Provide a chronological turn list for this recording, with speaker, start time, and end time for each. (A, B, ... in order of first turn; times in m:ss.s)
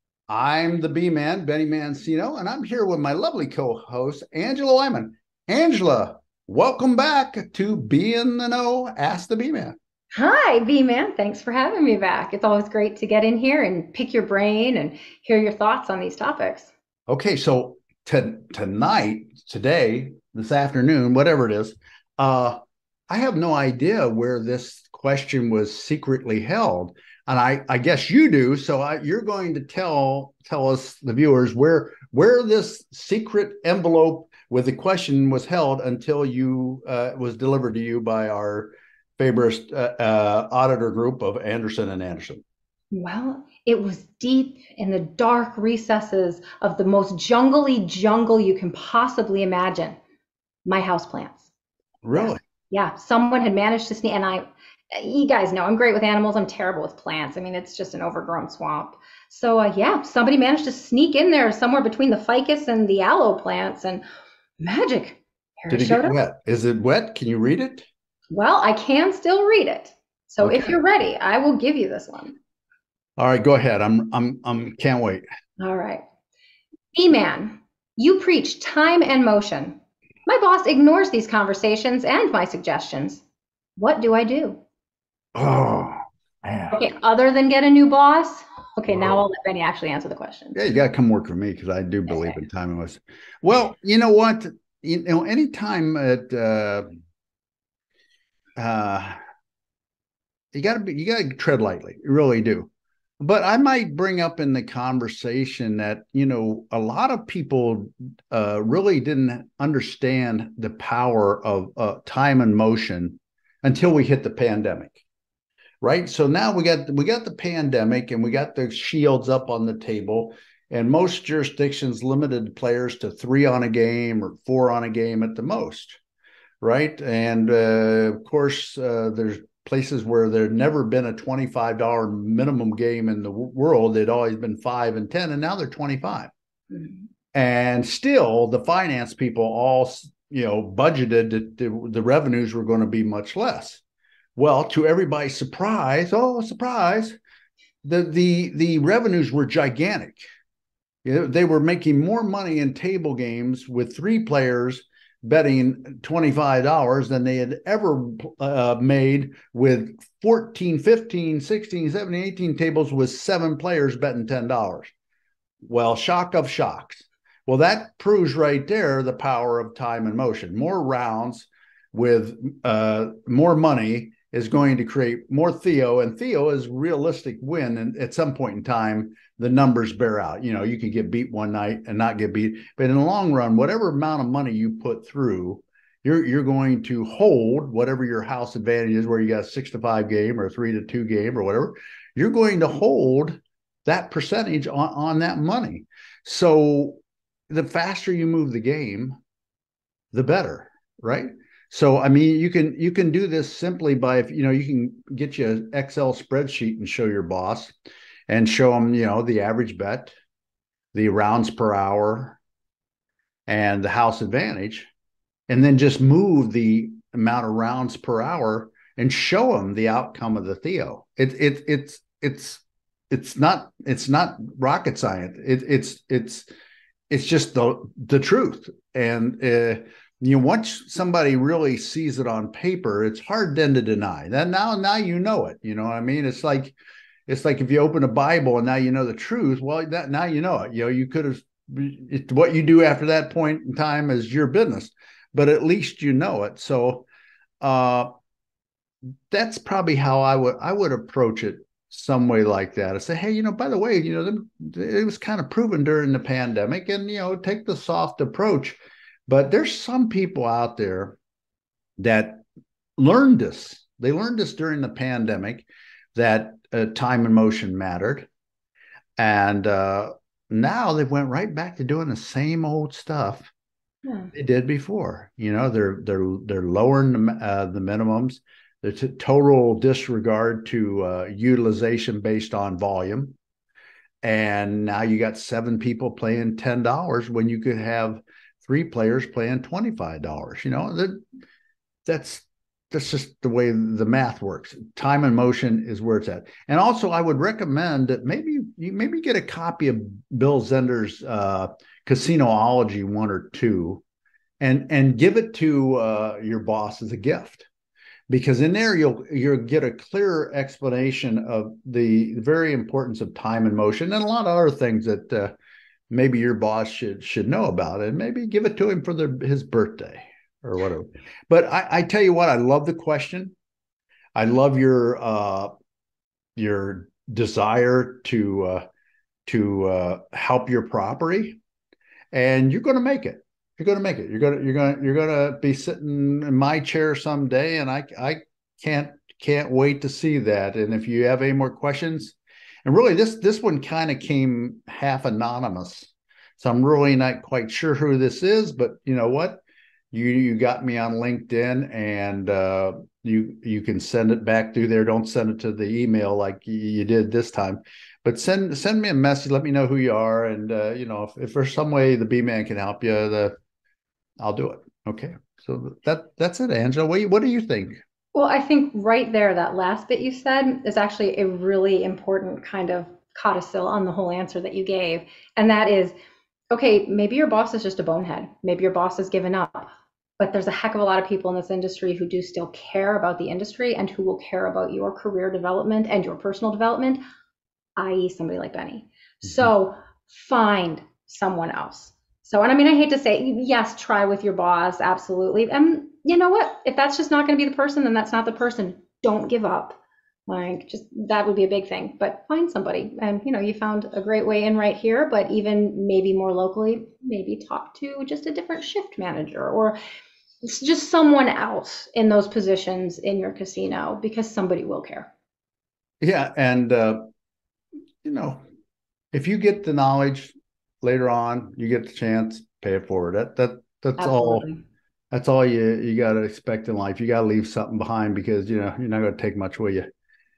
0:00.3-0:09.8 A
0:10.1-0:16.7 B
0:17.1-0:42.4 A
0:42.9-0:50.0 B
0:50.6-0:51.5 B
0:52.0-0:52.4 A
0:52.1-1:04.0 B
1:04.6-1:06.2 B
1:05.7-1:07.9 A
1:08.3-1:12.4 B
1:10.4-1:10.8 A
1:13.2-1:15.2 A
1:15.6-1:16.0 B
1:16.9-1:23.2 B
1:23.8-1:24.6 B
1:25.3-1:26.8 A
1:26.7-1:30.6 B
1:30.5-1:36.9 A
1:32.1-1:32.4 B
1:38.6-1:39.2 A
1:40.5-1:55.0 A
1:55.8-2:06.0 A
2:06.6-2:16.3 A
2:16.7-2:17.0 B
2:17.3-2:23.8 A
2:24.4-2:27.2 A
2:27.8-2:30.2 A
2:31.0-2:44.9 A
2:45.6-3:17.0 A
3:17.5-3:19.2 A
3:20.1-3:27.8 A
3:28.3-3:30.1 A
3:30.9-3:32.4 A
3:33.5-3:34.9 A
3:35.5-3:46.5 A
3:47.1-3:56.8 A
3:57.3-4:07.1 A
4:07.6-4:08.1 A
4:09.3-4:21.2 A
4:22.0-4:22.4 A
4:23.0-4:28.3 A
4:29.2-4:33.5 A
4:34.3-4:43.4 A
4:44.2-4:51.2 A
4:52.0-5:04.0 A
5:04.6-5:07.7 A
5:08.3-5:15.5 A
5:16.1-5:23.5 A
5:24.3-5:25.7 A
5:26.6-5:28.8 A
5:29.4-5:31.6 A
5:32.3-6:03.6 A
6:04.4-6:08.0 A
6:08.3-6:16.1 B
6:16.7-6:27.2 B
6:28.0-6:50.0 B
6:50.6-6:55.3 B
6:56.2-6:57.2 A
6:58.2-6:58.6 A
6:59.3-7:04.7 A
7:04.2-7:04.8 B
7:05.3-7:10.0 A